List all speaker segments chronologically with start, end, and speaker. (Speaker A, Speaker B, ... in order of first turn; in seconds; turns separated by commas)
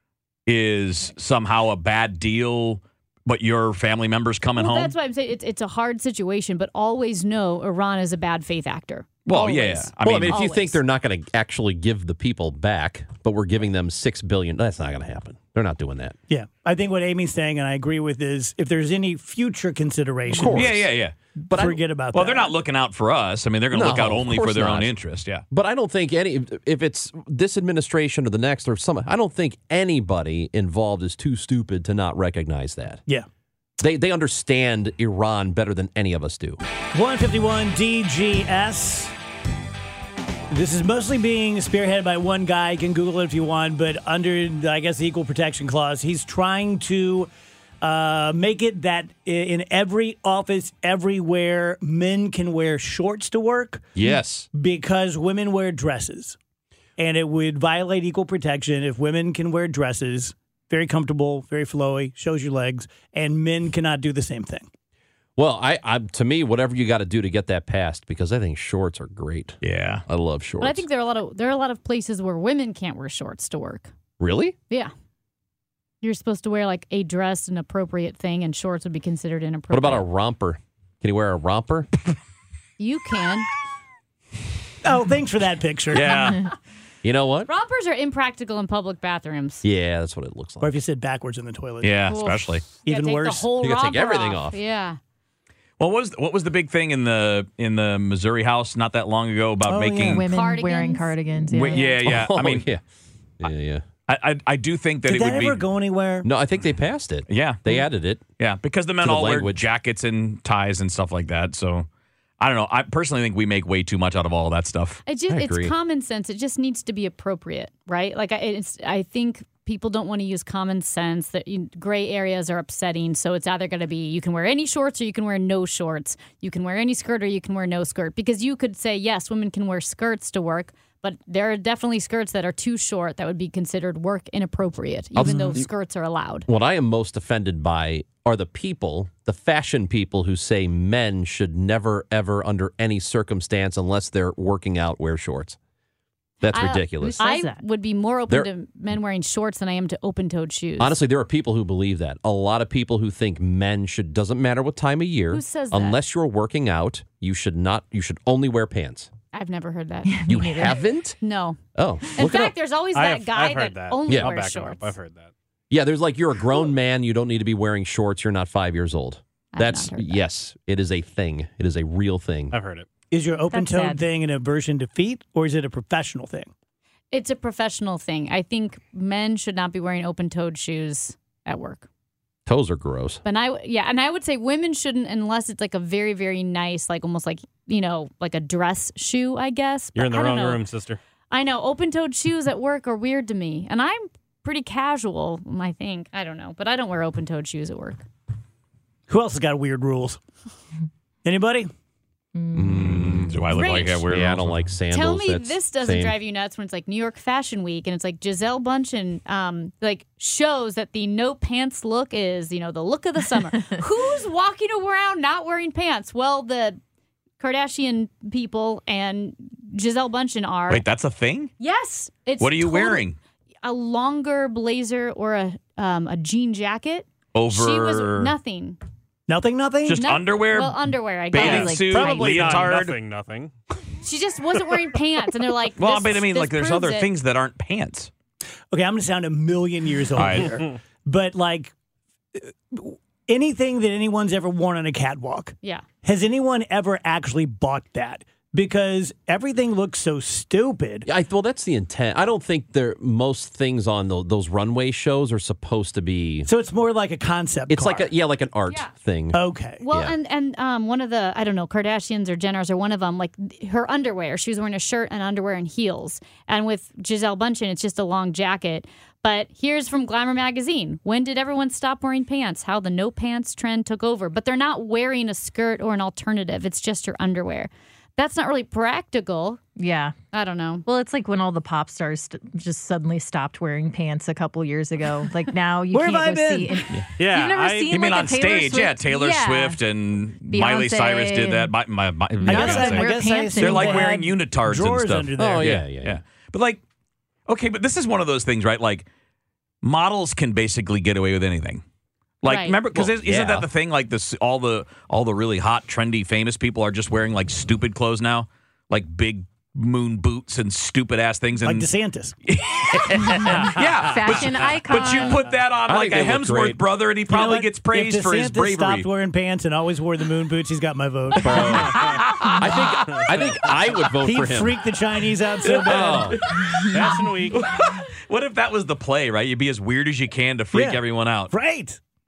Speaker A: 0.5-4.9, Speaker B: 4.5-10.8, Speaker A: 9.2-10.4, Speaker C: 10.0-16.2, Speaker D: 16.3-20.9, Speaker C: 20.3-20.9, Speaker A: 20.4-21.1, Speaker C: 21.5-21.8, Speaker D: 21.5-22.5, Speaker A: 22.1-25.4, Speaker C: 23.7-24.9, Speaker C: 25.5-33.0, Speaker C: 33.8-36.6, Speaker D: 36.9-39.1, Speaker D: 40.5-47.3, Speaker D: 47.8-53.9, Speaker C: 54.0-54.5, Speaker D: 54.5-56.4, Speaker D: 57.0-64.7, Speaker C: 65.3-70.8, Speaker A: 69.6-70.0, Speaker B: 70.6-73.9, Speaker C: 74.2-74.6, Speaker B: 76.0-80.0, Speaker C: 79.7-81.9, Speaker B: 82.8-83.5, Speaker D: 84.8-86.2, Speaker A: 85.9-86.5, Speaker C: 87.0-87.5, Speaker B: 87.5-89.6, Speaker C: 89.6-90.8, Speaker D: 90.6-92.0, Speaker A: 91.8-92.6, Speaker B: 92.1-95.0, Speaker D: 92.8-93.5, Speaker C: 93.6-94.6, Speaker A: 95.8-100.2, Speaker D: 99.7-100.2, Speaker E: 100.1-102.0, Speaker B: 100.2-101.8, Speaker A: 101.5-102.6, Speaker C: 102.0-102.8, Speaker C: 103.4-103.8, Speaker A: 104.1-105.6, Speaker D: 105.0-106.3, Speaker C: 106.2-108.2, Speaker A: 107.3-107.8, Speaker A: 108.4-111.9, Speaker C: 109.0-109.7, Speaker A: 112.4-115.0, Speaker B: 115.0-136.5, Speaker C: 115.3-115.7, Speaker C: 135.1-135.7, Speaker C: 136.4-145.6, Speaker C: 146.4-147.2, Speaker B: 146.5-151.0, Speaker E: 147.2-147.6, Speaker C: 150.8-159.1, Speaker B: 155.3-156.0, Speaker B: 159.3-161.6, Speaker E: 160.1-160.8, Speaker C: 160.3-161.2, Speaker C: 161.7-162.5, Speaker B: 162.1-164.9, Speaker F: 162.9-165.3, Speaker C: 164.1-164.3, Speaker C: 165.7-172.5, Speaker B: 169.5-170.2, Speaker F: 172.5-172.8, Speaker D: 173.1-176.5, Speaker E: 173.5-174.0, Speaker B: 177.1-181.9, Speaker C: 182.4-183.2, Speaker B: 183.2-190.6, Speaker F: 189.9-191.0, Speaker B: 191.3-198.1, Speaker D: 199.1-200.2, Speaker D: 201.2-201.7, Speaker C: 202.5-203.4, Speaker A: 202.7-204.6, Speaker B: 203.5-204.0, Speaker C: 204.1-206.1, Speaker B: 204.9-216.8, Speaker B: 217.4-220.8, Speaker A: 220.7-221.5, Speaker B: 221.6-223.0, Speaker A: 222.4-223.2, Speaker B: 223.6-228.8, Speaker A: 227.3-228.3, Speaker D: 229.3-230.1, Speaker A: 229.9-233.0, Speaker B: 229.9-232.7, Speaker E: 231.3-232.4, Speaker F: 231.9-233.5, Speaker B: 234.0-237.1, Speaker A: 235.8-238.1, Speaker D: 238.7-241.7, Speaker A: 240.2-240.6, Speaker D: 242.3-251.1, Speaker C: 251.1-256.5, Speaker D: 256.4-258.1, Speaker C: 257.7-260.1, Speaker D: 259.3-259.8, Speaker B: 259.8-279.6, Speaker E: 279.8-280.1, Speaker B: 280.3-280.8, Speaker E: 280.9-289.8, Speaker D: 285.9-286.8, Speaker F: 287.2-288.0, Speaker A: 287.9-296.8, Speaker E: 290.5-291.7, Speaker E: 292.4-294.2, Speaker D: 292.4-295.8, Speaker C: 295.4-296.2, Speaker A: 297.5-299.1, Speaker A: 299.8-301.8, Speaker A: 302.4-311.9, Speaker B: 302.4-302.8, Speaker C: 302.9-303.7, Speaker D: 311.6-312.3, Speaker A: 312.5-319.1, Speaker E: 313.2-315.5, Speaker C: 315.9-316.8, Speaker D: 317.3-322.1, Speaker C: 321.4-324.8, Speaker A: 321.5-323.2, Speaker D: 324.2-326.4, Speaker A: 325.7-326.9, Speaker C: 325.9-326.4, Speaker F: 326.9-327.6, Speaker A: 327.5-331.5, Speaker D: 330.7-332.0